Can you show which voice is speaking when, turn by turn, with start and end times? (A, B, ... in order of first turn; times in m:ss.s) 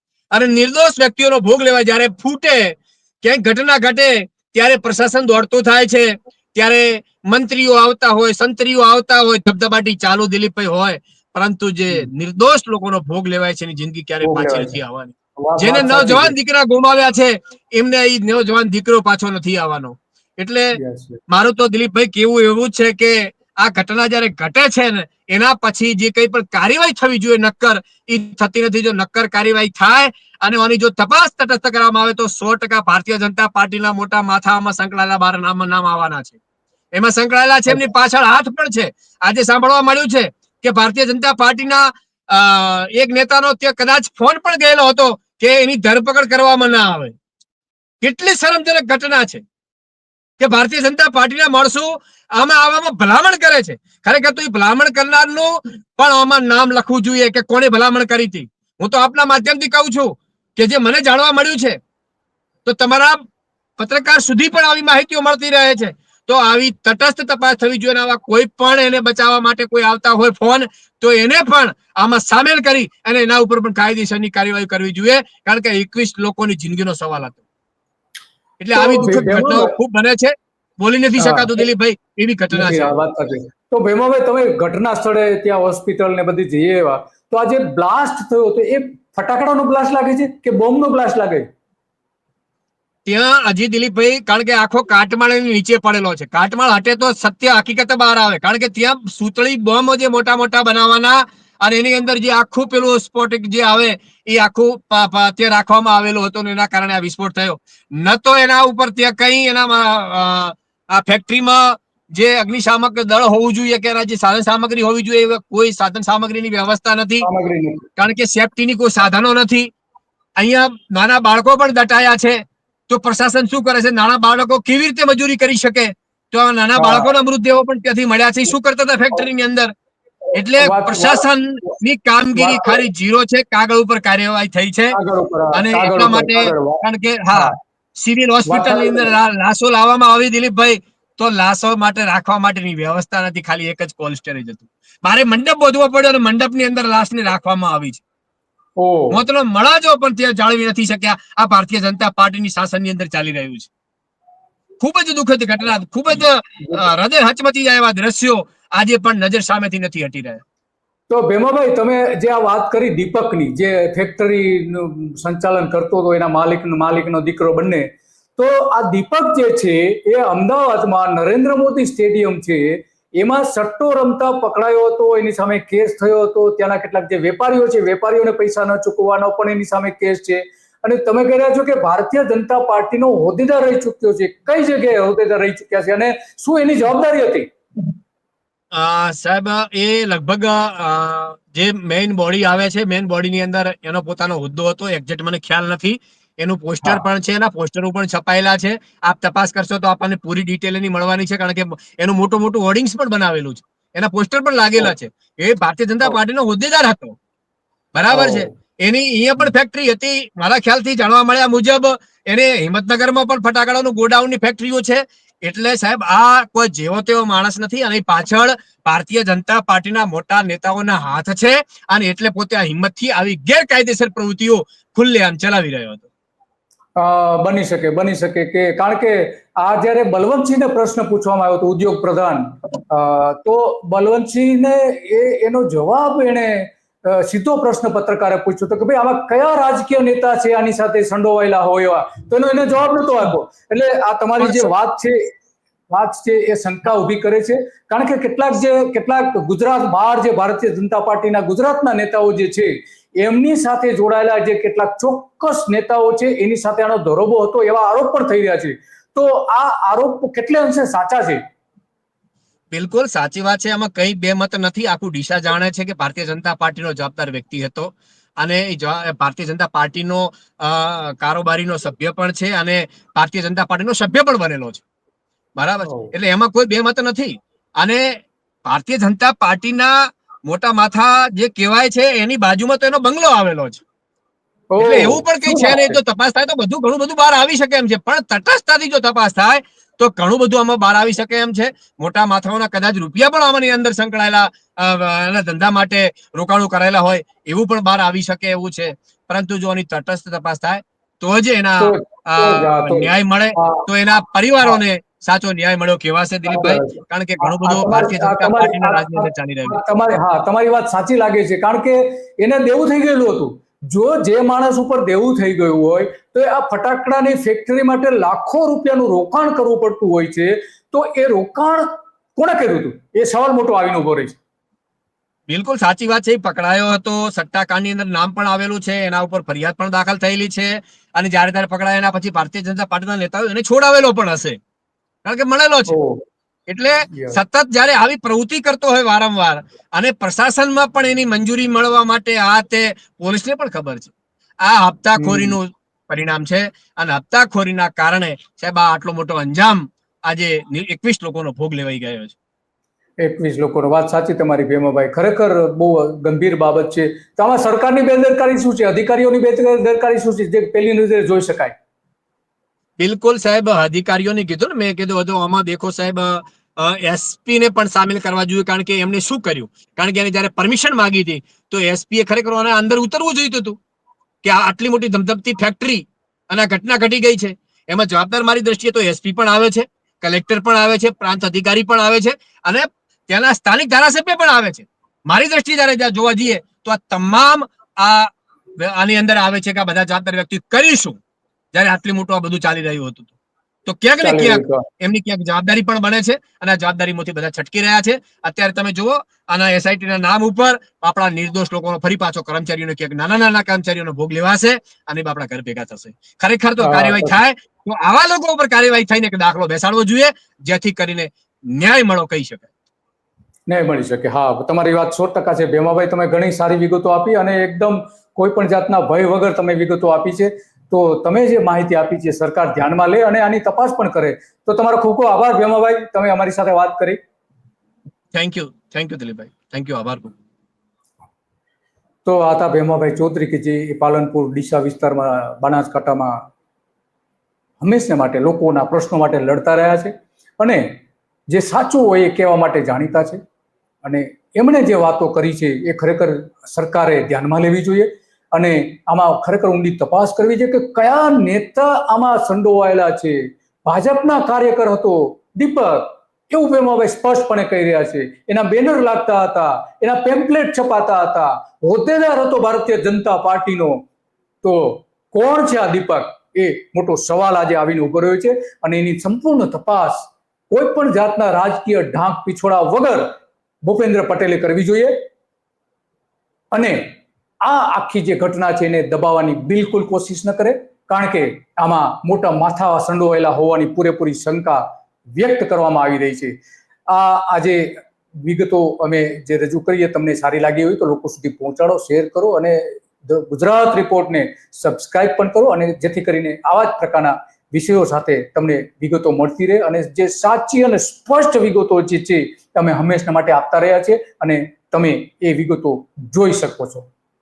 0:00.3-0:20.7 A
0:14.2-0:14.8 B
0:15.4-0:16.4 B
0:20.8-0:21.2 B
0:21.3-0:36.4 A
0:37.0-0:47.1 A
0:48.0-0:49.4 A
0:50.4-1:01.8 A
1:02.7-1:03.2 A
1:03.8-1:17.4 A
1:18.6-1:22.9 A
1:18.7-1:19.7 B
1:21.2-1:21.5 B
1:22.5-1:31.5 B
1:33.1-1:57.3 A
1:57.2-1:57.9 B
1:58.0-1:59.7 A
2:00.4-2:09.7 A
2:06.8-2:07.1 B
2:10.3-2:14.9 A
2:10.6-2:11.8 B
2:12.4-2:12.8 B
2:14.9-2:17.6 B
2:15.5-2:28.0 A
2:18.5-2:19.1 B
2:28.8-2:29.2 B
2:29.1-2:33.7 A
2:34.8-2:40.4 A
2:41.1-3:07.5 B
3:08.7-3:27.1 A
3:28.0-3:46.1 A
3:28.1-3:28.5 B
3:47.0-4:05.2 B
4:04.4-4:04.7 A
4:05.9-4:21.4 B
4:22.7-4:34.8 A
4:35.6-4:43.8 A
4:35.8-4:36.1 B
4:44.7-4:46.0 B
4:44.8-5:09.8 A
5:01.8-5:03.9 B
5:06.5-5:24.4 B
5:25.5-5:34.6 A
5:35.2-5:35.9 A
5:35.9-5:36.2 B
5:36.7-5:52.4 A
5:37.1-5:37.4 B
5:45.2-5:45.6 B
5:53.2-6:01.7 B
6:03.0-6:13.8 A
6:14.4-6:31.2 A
6:31.7-6:33.3 A
6:33.9-6:52.7 A
6:34.2-6:34.8 B
6:46.8-6:47.4 B
6:53.7-7:07.2 B
7:08.3-7:10.3 A
7:12.2-7:16.4 B
7:17.8-7:20.8 B
7:21.5-7:23.4 B
7:24.0-7:44.0 B
7:44.6-7:53.3 B
7:53.8-7:55.1 B
7:56.7-7:57.0 B
7:57.6-8:04.8 B
8:05.4-8:06.6 B
8:07.1-8:07.9 B
8:08.4-8:27.1 B